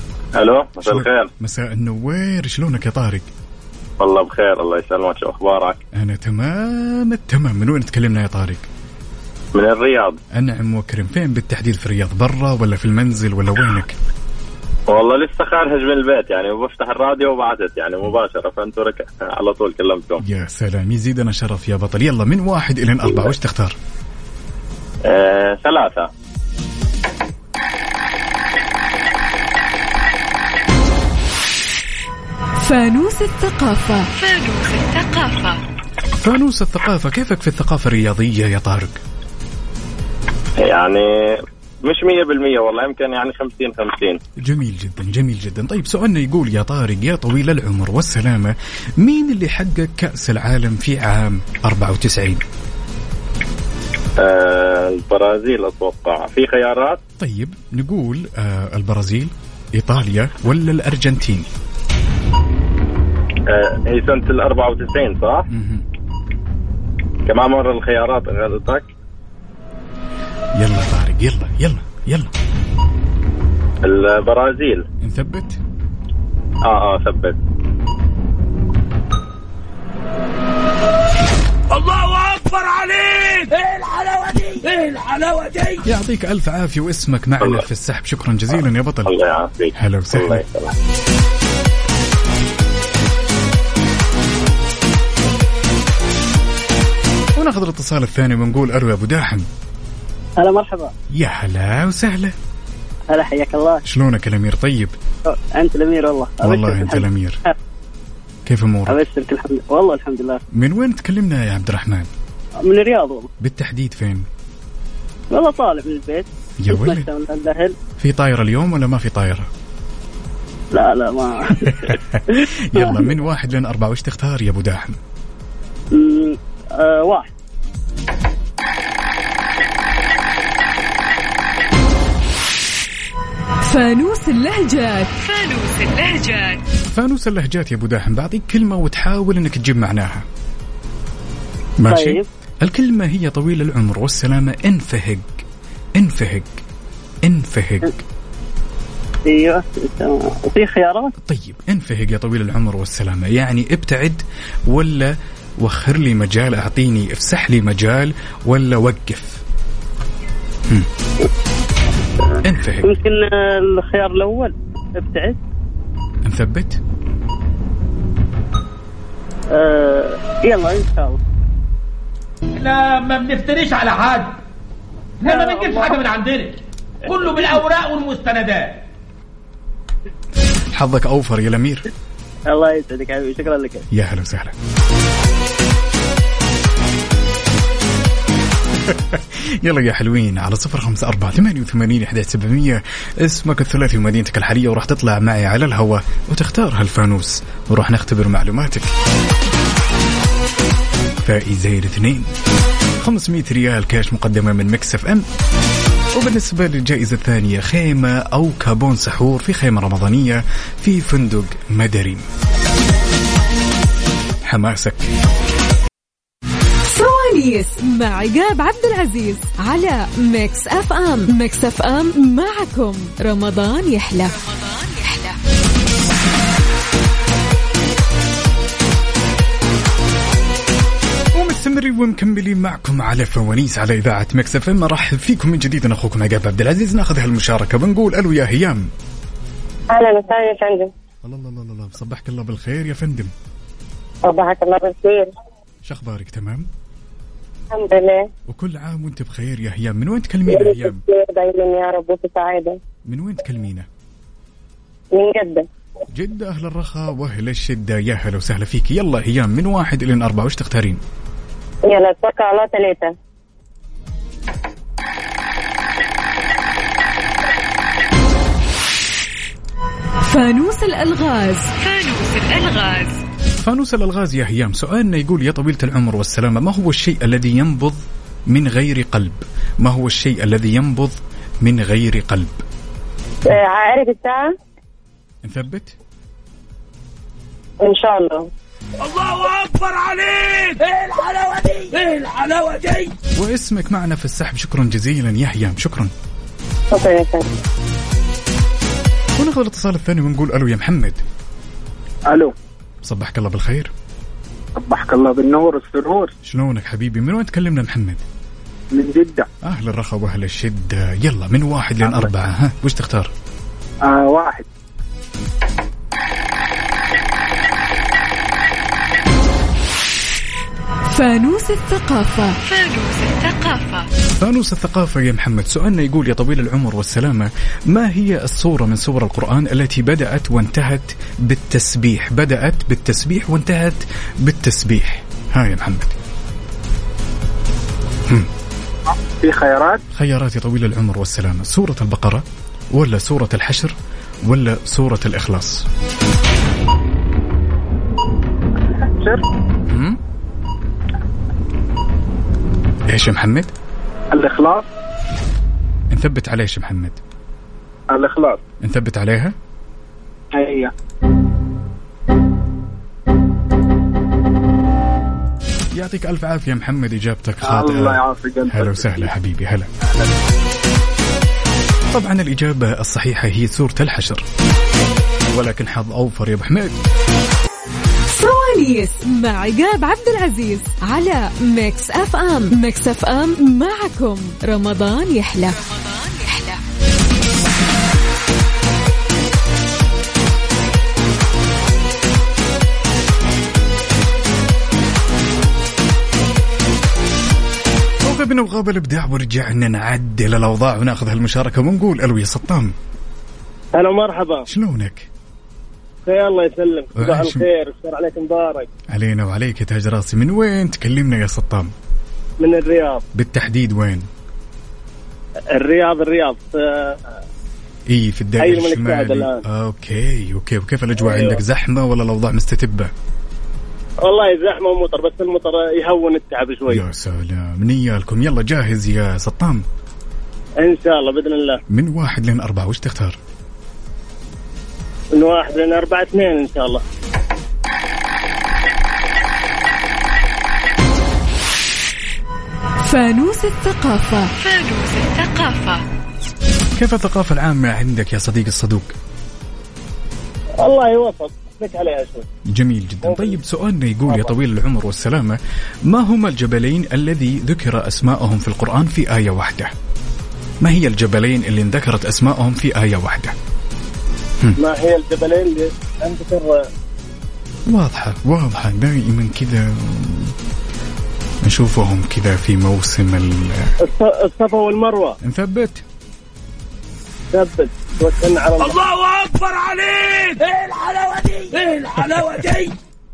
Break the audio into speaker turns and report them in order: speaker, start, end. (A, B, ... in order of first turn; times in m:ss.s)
0:00.4-0:01.3 A
0:00.8-0:03.3 B
0:04.0-0:05.8 A
0:05.9-0:08.7 B
0:09.6-0:10.2 A
0:10.3-0:14.0 B
0:14.9-0:20.2 A
0:20.2-0:23.8 B
0:25.1-0:26.1 A
0:32.6-0:34.1 C
0:34.2-0:35.6 D
0:36.2-0:39.0 B
0:40.6-0:41.1 A
0:41.8-0:44.2 A
0:44.4-0:52.4 B
0:54.2-0:57.0 A
0:57.2-1:01.5 B
1:03.5-1:05.5 A
1:05.5-1:05.8 B
1:07.3-1:08.9 A
1:10.6-1:12.3 B
1:13.8-1:14.8 A
1:15.0-1:15.6 B
1:16.6-1:17.4 A
1:21.7-1:25.8 E
1:25.8-1:29.2 B
1:29.1-1:30.7 A
1:29.8-1:30.4 B
1:37.4-1:39.5 B
1:40.4-1:40.9 F
1:41.1-1:42.4 B
1:43.1-1:43.8 F
1:43.8-1:45.0 B
1:45.3-1:47.5 F
1:46.4-1:47.4 B
1:48.5-1:49.0 B
1:48.9-1:50.4 F
1:50.5-1:52.1 B
1:52.6-1:53.3 F
1:53.4-1:54.3 B
1:55.3-1:57.8 F
1:56.6-1:57.1 B
1:58.0-1:59.5 B
2:00.7-2:03.1 F
2:01.6-2:05.0 B
2:05.9-2:07.3 F
2:13.6-2:15.1 C
2:15.2-2:16.6 D
2:16.9-2:20.2 B
2:21.8-2:25.4 B
2:21.9-2:22.3 F
2:26.0-2:26.5 B
2:27.2-2:28.0 B
2:29.3-2:31.1 F
2:31.2-2:39.4 B
2:42.4-2:43.0 B
2:42.8-2:45.4 F
2:46.2-2:46.8 B
2:49.5-2:51.2 F
2:52.6-2:54.4 E
2:55.2-2:58.8 E
2:55.2-2:56.0 F
3:00.7-3:01.9 B
3:02.5-3:03.8 F
3:03.9-3:04.6 B
3:08.8-3:18.9 B
3:21.2-3:22.3 B
3:23.0-3:25.3 B
3:26.1-3:32.3 B
3:34.4-3:35.1 B
3:36.9-3:44.3 C
3:44.3-3:45.4 D
3:51.3-3:58.9 B
3:59.9-4:00.9 G
4:01.2-4:03.3 B
4:04.2-4:05.3 G
4:05.8-4:06.7 B
4:07.7-4:08.3 G
4:08.5-4:11.0 B
4:10.5-4:12.8 G
4:13.1-4:13.9 B
4:15.1-4:15.6 G
4:16.1-4:21.0 B
4:21.9-4:23.1 G
4:30.2-4:31.7 C
4:31.8-4:33.2 D
4:33.6-4:42.6 B
4:43.5-4:44.5 G
4:45.4-4:46.0 B
4:47.8-4:48.5 G
4:49.0-4:53.1 E
4:53.4-4:56.1 B
4:56.9-4:57.6 G
4:59.4-5:01.2 B
5:03.0-5:03.9 B
5:04.8-5:06.3 H
5:06.4-5:08.2 B
5:08.9-5:09.5 H
5:09.6-5:13.3 B
5:14.1-5:14.6 H
5:21.1-5:22.6 C
5:22.6-5:24.1 D
5:24.4-5:36.2 B
5:39.4-5:40.0 H
5:40.1-5:45.9 B
5:48.8-5:49.4 H
5:49.9-5:50.2 B
5:53.1-5:53.7 B
5:54.3-5:54.8 H
5:56.1-5:57.2 B
5:58.1-5:58.6 H
5:58.8-5:59.6 B
6:00.5-6:00.9 H
6:05.9-6:09.9 B
6:07.7-6:09.1 H
6:12.1-6:14.4 B
6:15.5-6:17.0 B
6:18.3-6:25.8 C
6:25.8-6:26.8 D
6:38.2-6:43.0 B
6:43.9-6:44.6 F
6:44.7-6:45.3 B
6:46.2-6:48.9 F
6:47.2-6:47.7 B
6:49.1-6:51.9 B
6:52.6-6:53.2 F
6:53.3-6:54.3 B
6:55.7-6:57.2 F
6:58.1-7:03.1 B
6:58.6-6:59.6 F
7:01.2-7:01.6 F
7:04.3-7:07.0 F
7:06.9-7:09.8 B
7:10.8-7:11.8 F
7:11.9-7:13.4 B
7:15.4-7:17.0 F
7:23.0-7:24.5 C
7:24.6-7:26.0 D
7:27.0-7:29.1 B
7:30.8-7:32.5 F
7:32.7-7:39.9 B
7:33.2-7:33.6 F
7:34.3-7:34.5 F
7:40.8-7:43.6 B
7:44.8-7:46.9 F
7:47.9-7:50.5 B
7:51.6-7:53.9 B
7:54.0-7:55.4 F
7:55.4-7:56.0 B
7:57.5-7:59.0 F
7:58.8-8:02.9 E